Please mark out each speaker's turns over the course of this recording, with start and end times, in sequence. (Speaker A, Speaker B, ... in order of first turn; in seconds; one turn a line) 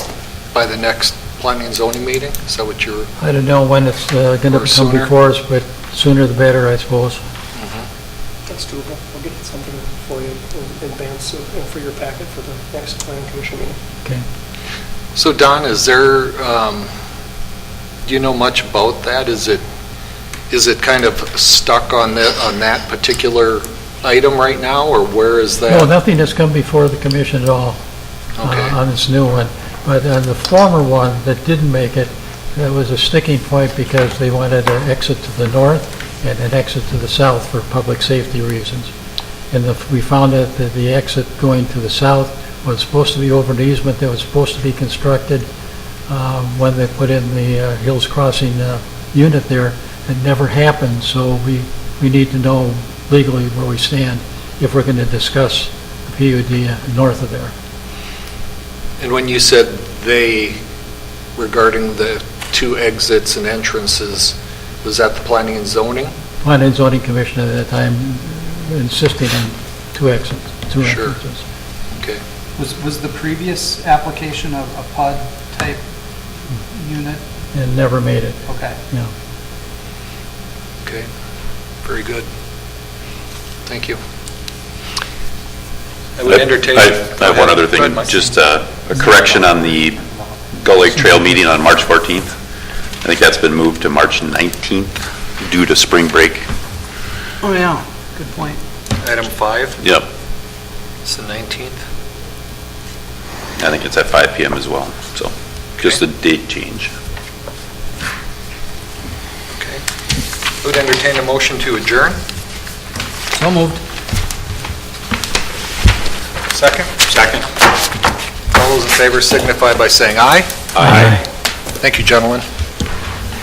Speaker A: 0.5-3.1
Speaker B: 3.2-7.2
Speaker A: 4.5-5.1
Speaker A: 7.6-7.9
Speaker C: 8.5-13.8
Speaker A: 15.2-16.9
Speaker A: 18.1-19.6
Speaker A: 20.5-25.9
Speaker B: 25.7-27.8
Speaker A: 28.4-28.8
Speaker B: 28.4-38.9
Speaker B: 39.5-45.5
Speaker B: 46.1-57.5
Speaker A: 59.0-60.6
Speaker A: 61.4-66.1
Speaker B: 66.4-71.4
Speaker A: 70.8-71.2
Speaker A: 71.9-72.2
Speaker D: 72.6-75.8
Speaker D: 76.7-77.2
Speaker B: 77.5-79.1
Speaker D: 78.5-78.8
Speaker A: 81.8-82.3
Speaker A: 83.7-84.0
Speaker A: 86.2-88.2
Speaker E: 86.3-90.0
Speaker D: 89.0-89.4
Speaker E: 90.5-92.4
Speaker E: 93.0-96.5
Speaker D: 97.4-98.6
Speaker A: 99.0-99.8
Speaker E: 99.8-100.1
Speaker A: 101.0-101.8
Speaker E: 103.6-106.9
Speaker A: 109.6-109.8
Speaker A: 110.6-112.2
Speaker D: 113.3-113.8
Speaker A: 116.5-117.1
Speaker E: 117.1-117.4
Speaker A: 118.5-120.5
Speaker E: 120.8-121.2
Speaker B: 120.8-121.1
Speaker A: 121.8-122.5